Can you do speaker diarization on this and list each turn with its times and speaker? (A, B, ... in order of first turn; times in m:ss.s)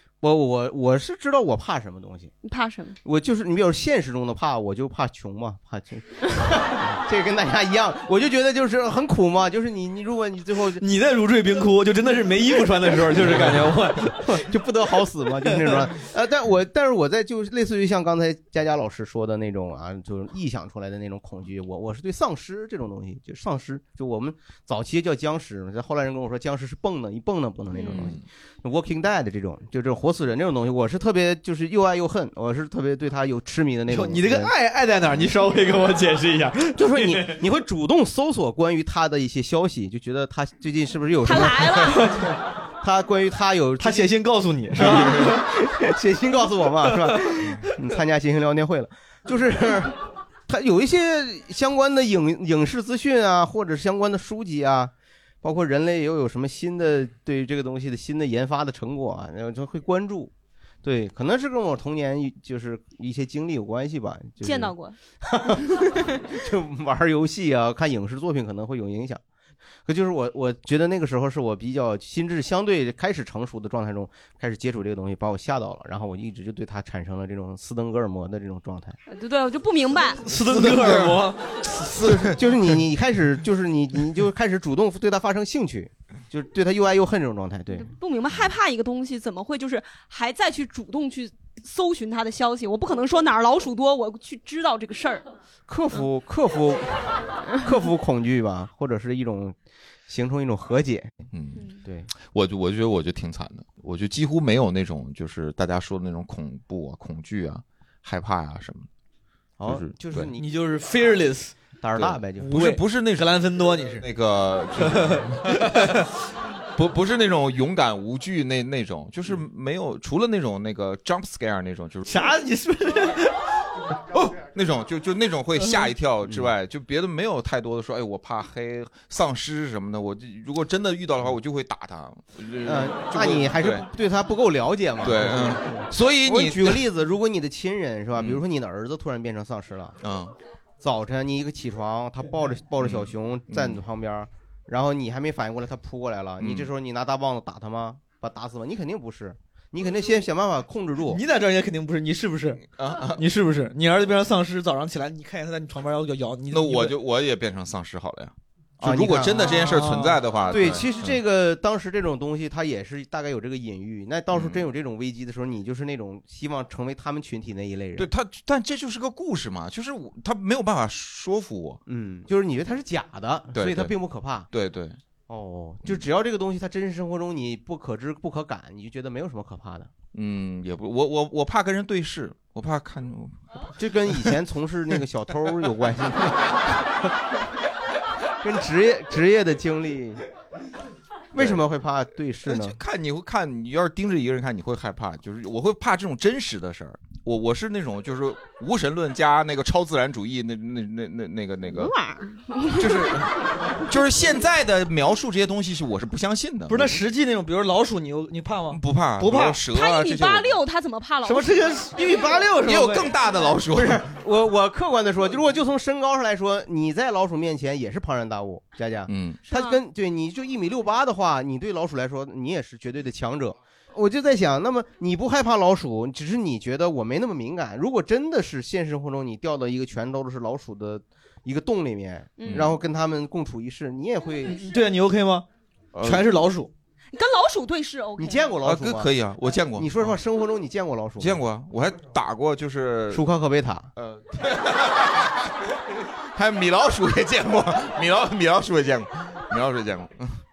0:00.2-0:02.3 A
0:02.4-0:03.0 B
0:03.0-0:10.8 A
0:10.8-0:14.4 C
0:14.2-0:34.5 A
0:15.5-0:15.8 C
0:27.7-0:28.1 B
0:27.9-0:28.2 D
0:33.9-0:37.3 C
0:36.8-0:44.1 A
0:41.2-0:42.3 B
0:43.8-0:45.4 C
0:44.8-0:50.0 A
0:47.1-0:47.6 C
0:50.5-0:54.9 A
0:55.4-1:00.3 A
1:00.8-1:04.7 A
1:04.4-1:04.9 B
1:05.2-1:09.2 A
1:09.8-1:19.0 A
1:19.1-1:20.2 B
1:20.2-1:22.3 C
1:20.4-1:21.2 D
1:22.0-1:27.9 A
1:27.7-1:35.2 B
1:35.7-1:39.5 A
1:40.1-1:41.2 A
1:41.3-1:41.7 D
1:41.8-1:42.1 A
1:42.2-1:48.9 D
1:49.6-1:50.4 A
1:49.6-1:50.2 D
1:50.4-1:51.5 C
1:51.8-1:52.5 A
1:51.9-1:53.4 D
1:52.4-1:54.1 C
1:54.0-1:55.9 D
1:54.8-1:56.0 C
1:56.7-2:02.1 D
2:02.1-2:03.4 C
2:04.1-2:13.9 D
2:12.6-2:20.0 A
2:15.0-2:16.8 D
2:18.2-2:18.4 D
2:20.0-2:20.3 D
2:20.8-2:31.2 A
2:22.8-2:23.8 D
2:26.4-2:26.7 D
2:31.1-2:37.0 C
2:32.7-2:33.2 D
2:36.5-2:41.2 D
2:38.8-2:39.6 A
2:39.4-2:40.2 C
2:40.5-2:48.1 A
2:44.3-2:44.6 D
2:48.0-2:51.8 D
2:51.9-2:54.5 A
2:53.5-2:53.9 D
2:54.5-2:55.0 D
2:55.3-2:59.9 A
3:00.1-3:03.4 D
3:03.8-3:07.1 A
3:08.4-3:10.2 A
3:11.3-3:12.8 A
3:11.4-3:11.6 D
3:12.4-3:21.9 D
3:21.7-3:23.2 B
3:22.7-3:23.3 D
3:23.9-3:27.0 D
3:26.7-3:29.6 C
3:28.7-3:30.6 D
3:29.4-3:31.6 B
3:31.2-3:33.1 C
3:32.6-3:34.1 D
3:33.8-3:54.6 A
3:39.1-3:39.4 D
3:39.5-3:39.8 B
3:52.4-3:52.7 B
3:52.4-3:52.8 D
3:54.5-3:55.4 C
3:56.0-3:56.7 C
3:57.1-3:58.6 B
3:58.2-3:59.1 A
3:58.6-4:00.1 D
3:59.8-4:01.4 A
4:01.2-4:03.2 D
4:03.1-4:03.9 A
4:04.0-4:05.3 D
4:06.3-4:10.4 D